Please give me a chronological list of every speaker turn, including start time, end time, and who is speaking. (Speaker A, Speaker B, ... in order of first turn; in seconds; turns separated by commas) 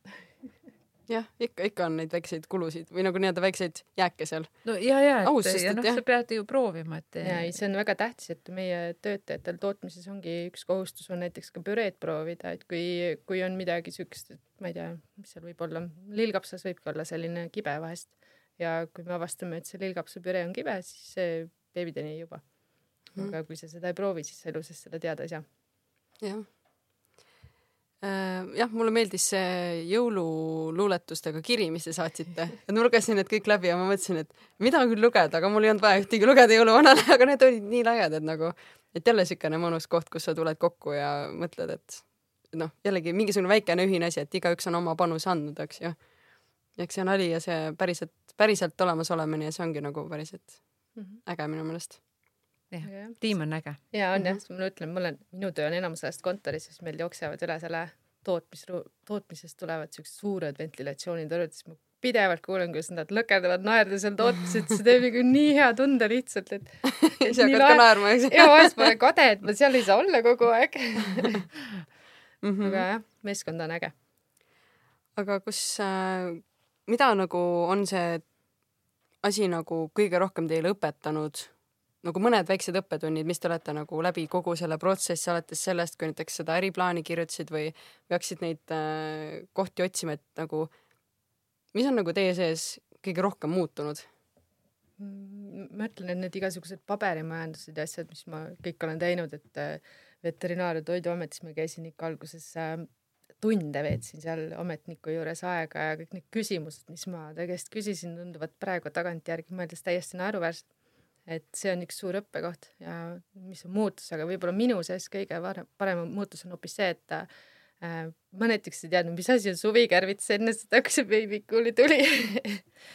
Speaker A: 1.1-6.0, Speaker B: 4.6-7.6, Speaker C: 7.2-22.5, Speaker C: 23.0-25.4, Speaker A: 26.2-26.5, Speaker A: 28.0-46.0, Speaker A: 46.7-52.0, Speaker B: 52.7-53.8, Speaker C: 52.8-53.2, Speaker C: 53.9-71.4, Speaker A: 66.9-68.9, Speaker A: 72.4-72.9, Speaker C: 72.6-73.9, Speaker A: 75.2-78.3, Speaker A: 79.2-90.7, Speaker A: 91.7-94.1, Speaker C: 95.0-102.9, Speaker C: 103.4-110.7, Speaker C: 111.2-117.3, Speaker C: 117.8-122.7